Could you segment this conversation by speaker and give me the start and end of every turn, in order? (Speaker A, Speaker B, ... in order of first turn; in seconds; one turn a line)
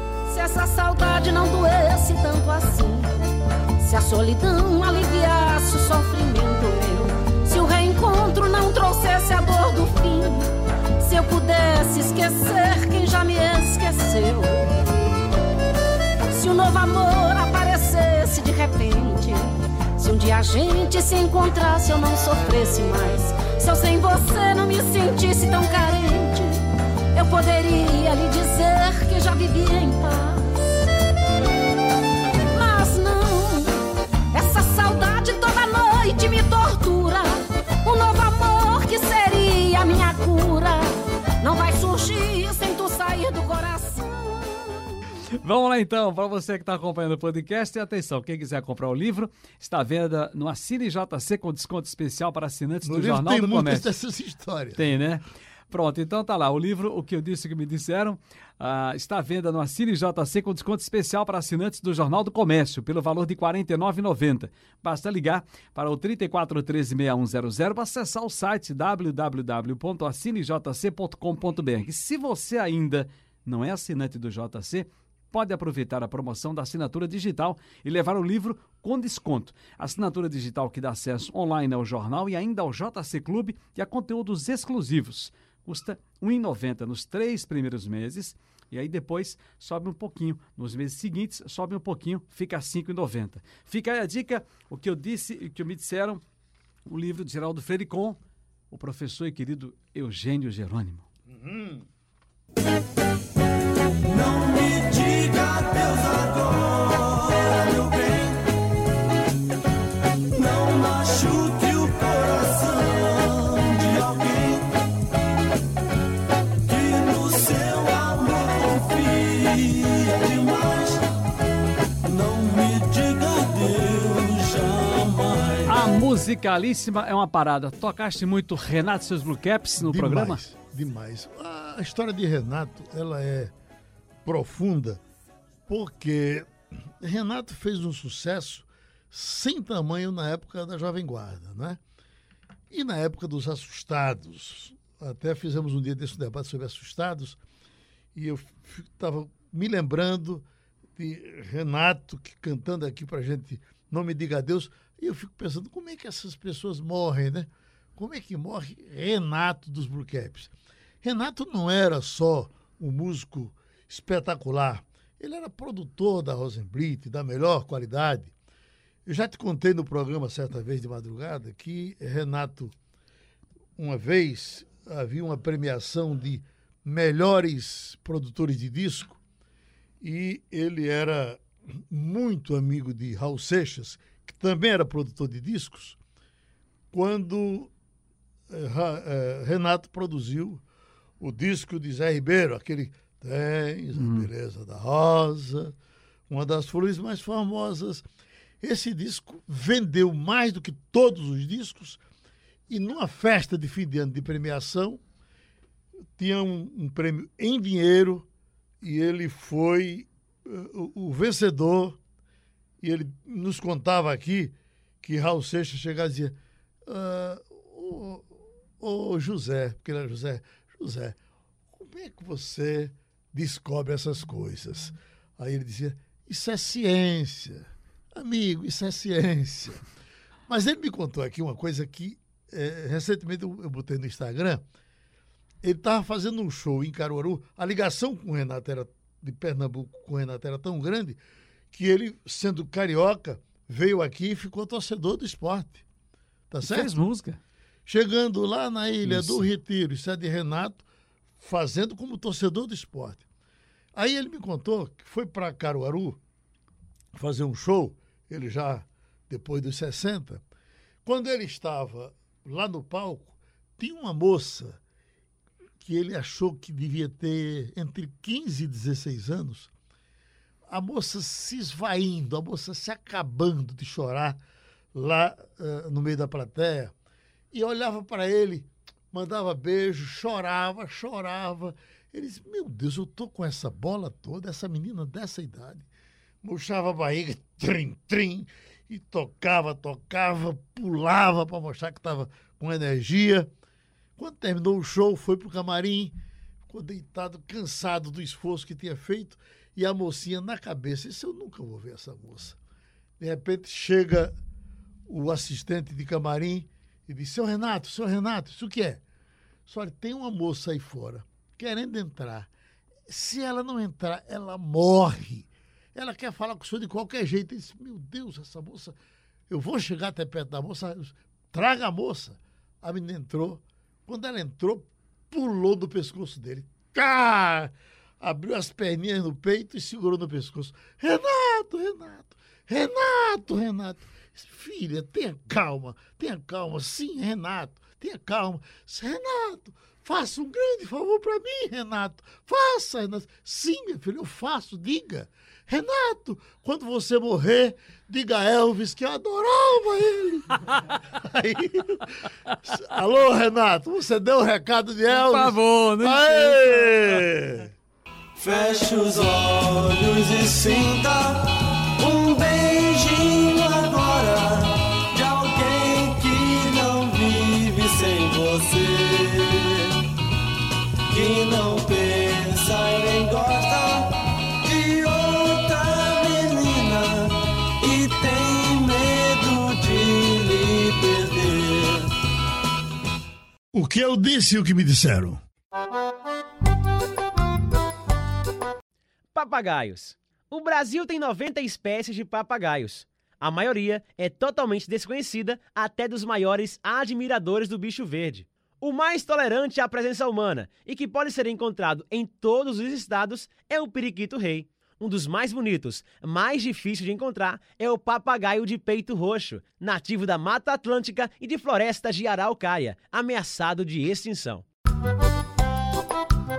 Speaker A: 0.3-3.2
Speaker A: 3.8-14.8
Speaker A: 16.3-30.9
Speaker A: 32.5-45.0
Speaker B: 45.4-53.9
Speaker C: 52.8-54.9
Speaker B: 54.8-96.2
Speaker B: 96.8-98.2
Speaker B: 98.7-101.0
Speaker C: 101.3-101.8
Speaker D: 104.0-108.5
Speaker D: 110.3-114.7
Speaker D: 116.6-121.1
Speaker D: 122.0-125.7
Speaker B: 125.7-130.4
Speaker C: 129.8-133.5
Speaker C: 134.2-135.0
Speaker C: 135.7-141.8
Speaker C: 142.7-147.4
Speaker C: 148.1-150.4
Speaker C: 150.9-160.5
Speaker C: 161.0-168.3
Speaker C: 169.1-172.7
Speaker C: 173.8-179.2
Speaker C: 180.0-186.0
Speaker C: 186.9-187.7
Speaker C: 188.5-190.6
Speaker C: 191.2-195.7
Speaker B: 193.9-194.3
Speaker C: 196.3-198.0
Speaker C: 198.6-202.0
Speaker C: 202.7-205.0
Speaker C: 206.2-208.2
Speaker C: 208.8-212.0
Speaker C: 212.8-216.3
Speaker C: 216.8-221.2
Speaker C: 221.8-229.8
Speaker C: 230.5-234.6
Speaker C: 235.6-241.2
Speaker C: 241.7-245.8
Speaker C: 246.5-246.9
Speaker B: 246.6-247.4
Speaker C: 247.8-250.8
Speaker B: 249.0-249.5
Speaker C: 251.4-253.2
Speaker C: 253.9-256.2
Speaker C: 257.1-260.4
Speaker C: 261.0-264.8
Speaker C: 265.8-269.7
Speaker C: 270.7-274.4
Speaker C: 274.9-276.9
Speaker C: 277.5-285.9
Speaker C: 286.4-293.5
Speaker C: 294.2-296.1
Speaker C: 296.7-302.6
Speaker C: 303.2-304.3
Speaker C: 305.1-309.0
Speaker C: 309.6-312.5
Speaker C: 313.1-318.9
Speaker C: 319.5-350.6
Speaker C: 351.2-357.7
Speaker B: 355.1-357.2
Speaker D: 358.4-369.9
Speaker D: 371.1-382.1
Speaker C: 383.7-385.4
Speaker E: 389.3-414.6